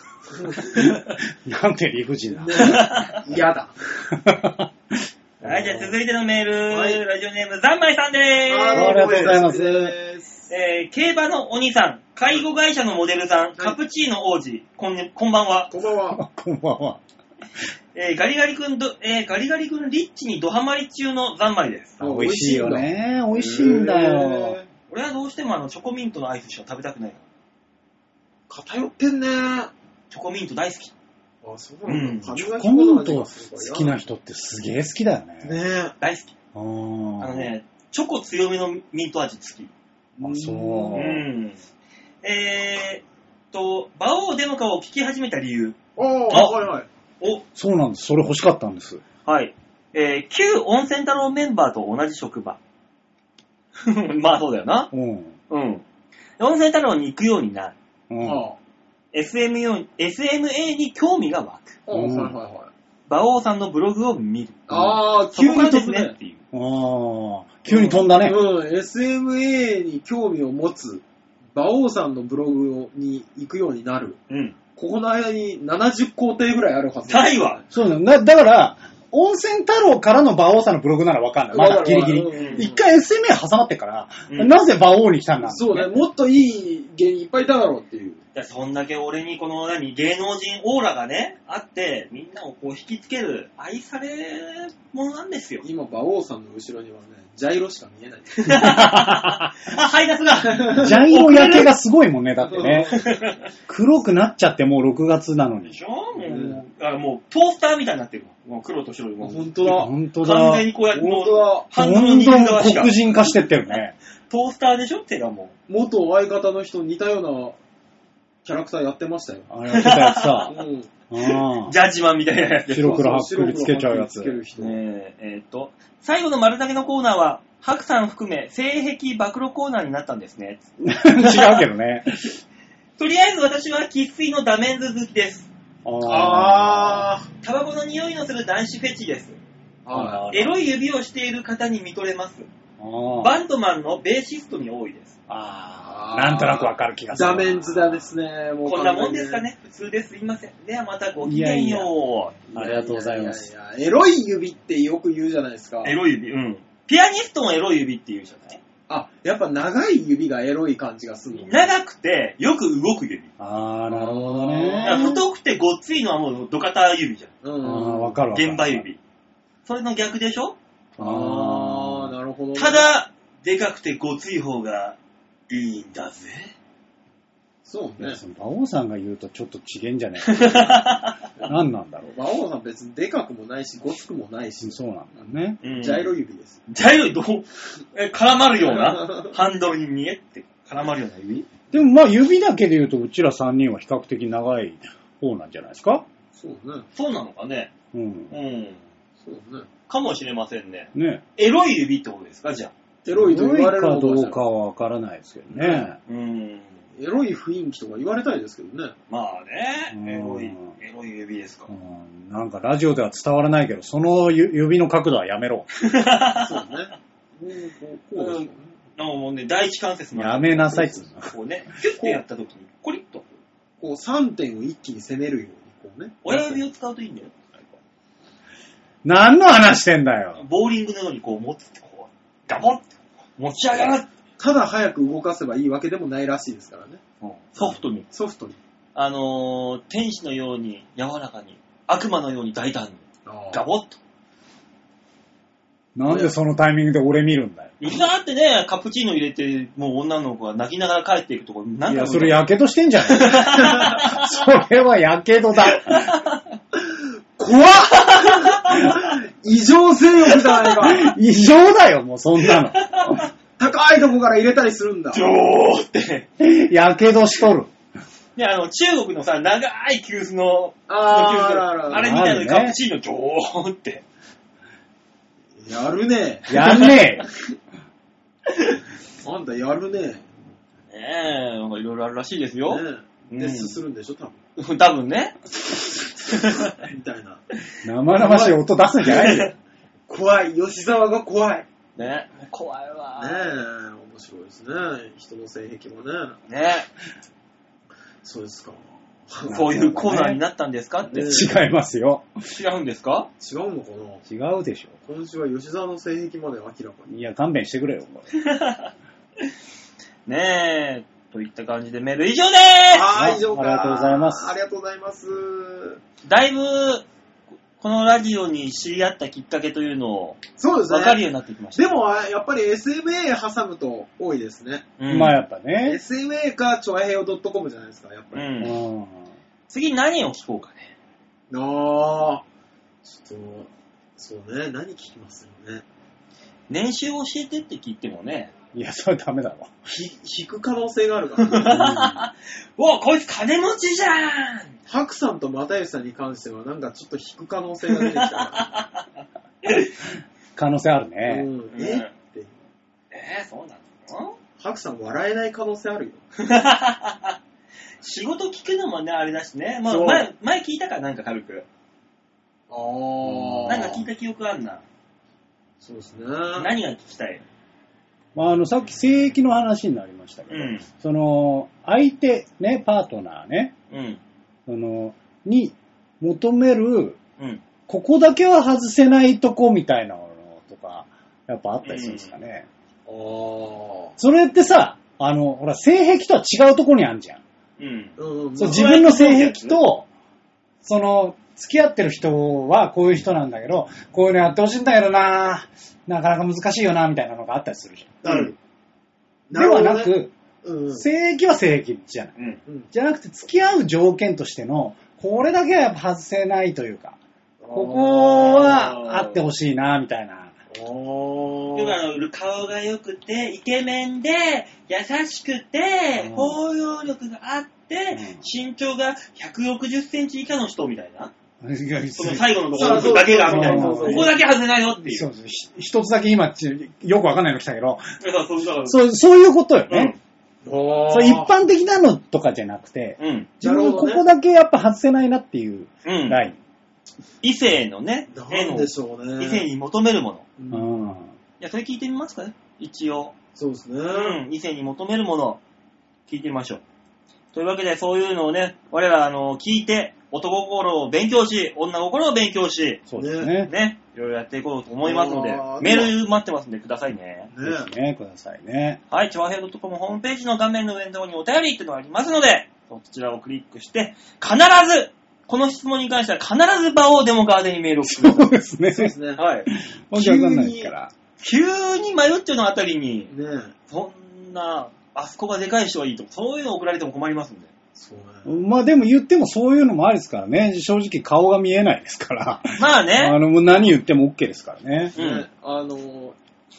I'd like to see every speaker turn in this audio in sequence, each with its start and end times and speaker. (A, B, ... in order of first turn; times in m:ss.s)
0:00.3-0:00.7 A
0:00.6-0:01.2 B
0:00.7-0:03.4 C
0:02.3-0:03.7 A
0:02.6-0:03.2 B
0:04.1-0:05.0 C
0:05.4-0:05.9 A
0:05.4-0:09.4 B
0:06.7-0:07.0 A
0:08.5-0:10.4 A
0:08.7-0:10.0 C
0:10.5-0:15.7 B
0:15.7-0:16.2 A
0:16.1-0:17.0 C
0:18.0-0:22.0 B
0:22.0-0:24.6 C
0:22.0-0:24.7 A
0:24.9-0:27.2 B
0:28.5-0:29.7 A
0:30.1-0:30.9 B
0:31.4-0:34.0 A
0:31.9-0:32.3 B
0:32.4-0:35.6 C
0:35.4-0:36.0 A
0:36.0-0:36.3 B
0:36.5-0:37.5 C
0:37.2-0:39.7 B
0:40.2-0:41.2 A
0:40.2-0:41.2 C
0:41.0-0:41.6 B
0:42.2-0:46.5 B
0:46.0-0:46.9 A
0:47.6-0:49.0 C
0:49.3-0:52.6 B
0:53.8-0:54.9 B
0:54.9-0:55.4 C
0:55.5-0:55.8 B
0:56.4-0:57.8 B
0:58.1-0:58.4 C
0:58.2-0:58.6 A
0:59.1-1:01.8 B
1:01.9-1:02.7 A
1:01.9-1:02.3 C
1:03.1-1:04.7 B
1:04.7-1:06.1 A
1:04.7-1:05.0 C
1:05.3-1:06.4 B
1:06.5-1:08.4 C
1:07.7-1:11.0 A
1:11.5-1:14.2 A
1:14.3-1:14.6 B
1:14.8-1:17.7 A
1:17.1-1:17.6 B
1:17.7-1:25.9 C
1:21.5-1:22.9 A
1:22.3-1:22.6 B
1:24.3-1:24.6 B
1:25.4-1:28.2 A
1:28.4-1:35.6 B
1:35.6-1:38.5 A
1:38.4-1:41.7 B
1:38.5-1:39.5 C
1:40.4-1:41.0 A
1:40.8-1:42.9 C
1:42.4-1:43.0 A
1:42.9-1:43.4 B
1:43.7-1:45.8 C
1:45.7-1:49.6 B
1:46.2-1:46.6 A
1:49.2-1:49.9 A
1:49.6-1:50.7 C
1:50.2-1:53.2 B
1:50.9-1:51.7 A
1:51.7-1:54.0 C
1:54.3-1:55.5 B
1:55.7-1:57.6 A
1:58.4-1:59.5 A
1:59.5-2:00.5 C
1:59.7-2:00.6 B
2:00.5-2:00.9 A
2:01.1-2:01.8 C
2:01.2-2:03.0 B
2:02.7-2:04.4 C
2:02.7-2:04.8 A
2:04.6-2:10.6 B
2:10.8-2:12.3 C
2:11.2-2:11.6 B
2:13.0-2:15.5 B
2:15.8-2:17.1 C
2:16.0-2:17.3 A
2:17.4-2:19.4 B
2:19.8-2:20.3 A
2:19.9-2:20.6 C
2:20.3-2:22.5 B
2:22.8-2:23.4 C
2:23.2-2:25.1 B
2:25.3-2:28.1 C
2:25.8-2:29.5 A
2:28.6-2:32.4 B
2:31.2-2:33.5 C
2:32.5-2:36.0 A
2:35.8-2:38.6 B
2:38.9-2:41.7 A
2:41.4-2:43.3 B
2:43.4-2:45.2 C
2:43.9-2:45.1 A
2:44.8-2:47.4 B
2:47.4-2:48.2 A
2:47.6-2:48.8 C
2:48.3-2:49.0 B
2:49.6-2:50.6 B
2:51.0-2:52.9 A
2:51.0-2:52.1 C
2:52.6-2:55.0 B
2:55.5-2:56.5 B
2:57.6-2:58.2 A
2:58.0-3:02.1 C
3:00.3-3:01.2 B
3:02.1-3:04.8 A
3:04.6-3:05.6 C
3:05.6-3:06.6 A
3:05.6-3:06.1 B
3:06.7-3:11.5 B
3:08.7-3:09.3 A
3:11.7-3:16.0 C
3:16.4-3:16.9 A
3:17.0-3:17.7 B
3:17.9-3:18.3 C
3:18.3-3:18.8 B
3:19.2-3:19.7 A
3:19.9-3:22.7 B
3:20.9-3:21.2 C
3:23.0-3:24.4 A
3:23.1-3:26.0 C
3:25.5-3:25.9 A
3:26.1-3:26.8 B
3:27.0-3:29.0 A
3:29.1-3:31.7 B
3:29.9-3:30.7 C
3:31.7-3:35.7 C
3:35.8-3:36.7 B
3:36.4-3:38.8 A
3:38.2-3:43.3 B
3:40.2-3:41.3 C
3:40.7-3:41.0 A
3:43.8-3:46.6 A
3:46.2-3:47.3 B
3:49.0-3:50.4 C
3:50.4-3:54.1 B
3:54.4-3:57.0 A
3:57.2-3:58.0 B
3:57.6-3:58.6 A
3:59.0-4:04.0 B
4:03.3-4:03.6 A
4:06.0-4:07.8 C
4:07.8-4:12.4 B
4:11.9-4:16.2 C
4:13.1-4:14.2 B
4:13.5-4:14.0 A
4:15.7-4:16.4 B
4:17.4-4:21.1 A
4:18.0-4:19.1 B
4:20.8-4:23.3 C
4:22.8-4:23.2 B
4:23.6-4:25.3 A
4:25.1-4:26.3 B
4:26.4-4:27.7 C
4:28.4-4:34.0 B
4:30.9-4:32.1 A
4:31.9-4:32.8 C
4:35.6-4:37.1 A
4:36.5-4:37.2 C
4:39.2-4:40.3 A
4:40.9-4:43.8 B
4:42.7-4:44.4 A
4:44.6-4:45.4 B
4:46.3-4:46.7 B
4:46.6-4:47.4 A
4:47.8-4:49.5 C
4:48.1-4:48.6 A
4:49.1-4:49.5 B
4:50.1-4:51.7 A
4:52.0-4:53.5 B
4:53.2-4:56.4 A
4:56.5-4:56.9 B
4:58.2-4:59.7 A
4:59.5-5:00.4 C
4:59.5-5:01.4 B
5:01.1-5:01.5 A
5:01.1-5:02.4 C
5:02.5-5:03.3 B
5:03.4-5:04.2 A
5:04.3-5:05.0 C
5:05.1-5:07.1 A
5:07.1-5:08.3 C
5:08.4-5:08.9 B
5:10.3-5:13.1 B
5:12.9-5:16.0 A
5:13.1-5:14.6 C
5:16.2-5:17.1 B
5:17.8-5:21.9 B
5:20.6-5:21.2 A
5:21.8-5:24.9 A
5:25.0-5:25.4 B
5:25.1-5:26.0 C
5:25.8-5:28.5 A
5:28.3-5:28.8 B
5:28.6-5:29.3 C
5:29.7-5:30.9 B
5:31.5-5:32.4 A
5:33.0-5:35.8 A
5:36.7-5:38.5 B
5:38.7-5:39.8 C
5:39.9-5:41.6 A
5:41.4-5:44.7 B
5:41.6-5:42.3 C
5:44.9-5:48.7 A
5:48.0-5:49.0 B
5:49.6-5:49.9 B
5:50.6-5:51.5 C
5:51.2-5:52.6 A
5:51.7-5:52.1 B
5:53.1-5:54.4 B
5:54.6-5:56.2 A
5:56.4-5:57.4 B
5:58.0-6:01.7 B
5:59.9-6:00.3 A
6:02.7-6:04.1 A
6:03.3-6:03.9 C
6:03.7-6:04.8 B
6:05.8-6:06.7 A
6:06.6-6:07.4 B
6:08.4-6:13.7 C
6:10.5-6:10.9 B
6:13.9-6:14.2 B
6:14.7-6:17.2 C
6:17.9-6:22.7 C
6:21.8-6:22.3 B
6:23.1-6:24.2 A
6:24.2-6:27.4 C
6:27.8-6:29.8 B
6:28.2-6:29.1 A
6:28.6-6:30.1 C
6:30.8-6:38.4 C
6:38.2-6:38.5 A
6:38.3-6:38.5 B
6:39.5-6:41.0 A
6:39.5-6:40.3 C
6:40.9-6:42.4 C
6:42.9-6:47.2 C
6:47.6-6:48.7 A
6:47.7-6:50.6 C
6:48.3-6:49.4 B
6:50.7-6:52.0 A
6:51.8-7:01.3 B
6:56.2-6:56.6 C
6:58.1-6:58.4 C
7:01.6-7:04.4 C
7:02.2-7:05.3 B
7:02.8-7:04.4 A
7:05.1-7:08.1 C
7:08.2-7:09.0 B
7:08.8-7:10.1 C
7:09.9-7:10.2 B
7:10.6-7:11.5 A
7:11.1-7:16.6 C
7:13.2-7:13.5 B
7:13.6-7:14.3 A
7:16.0-7:16.4 B
7:17.4-7:20.5 B
7:18.3-7:19.7 A
7:20.6-7:20.9 A
7:20.7-7:21.3 C
7:21.6-7:23.3 B
7:23.6-7:24.4 A
7:24.1-7:25.6 B
7:26.3-7:26.8 B
7:27.5-7:33.0 B
7:33.1-7:33.7 C
7:33.2-7:33.5 A
7:33.6-7:37.5 B
7:35.0-7:36.2 A
7:37.5-7:37.9 A
7:37.6-7:39.0 C
7:39.1-7:48.5 B
7:48.1-7:49.1 C
7:48.9-7:49.4 A
7:49.4-7:49.7 B
7:49.7-7:51.1 C
7:50.1-7:50.9 A
7:51.4-7:53.3 B
7:53.3-7:53.7 A
7:53.9-7:57.7 B
7:58.0-7:58.5 A
7:58.5-8:05.2 C
8:02.8-8:03.4 B
8:05.2-8:06.4 A
8:05.2-8:05.4 B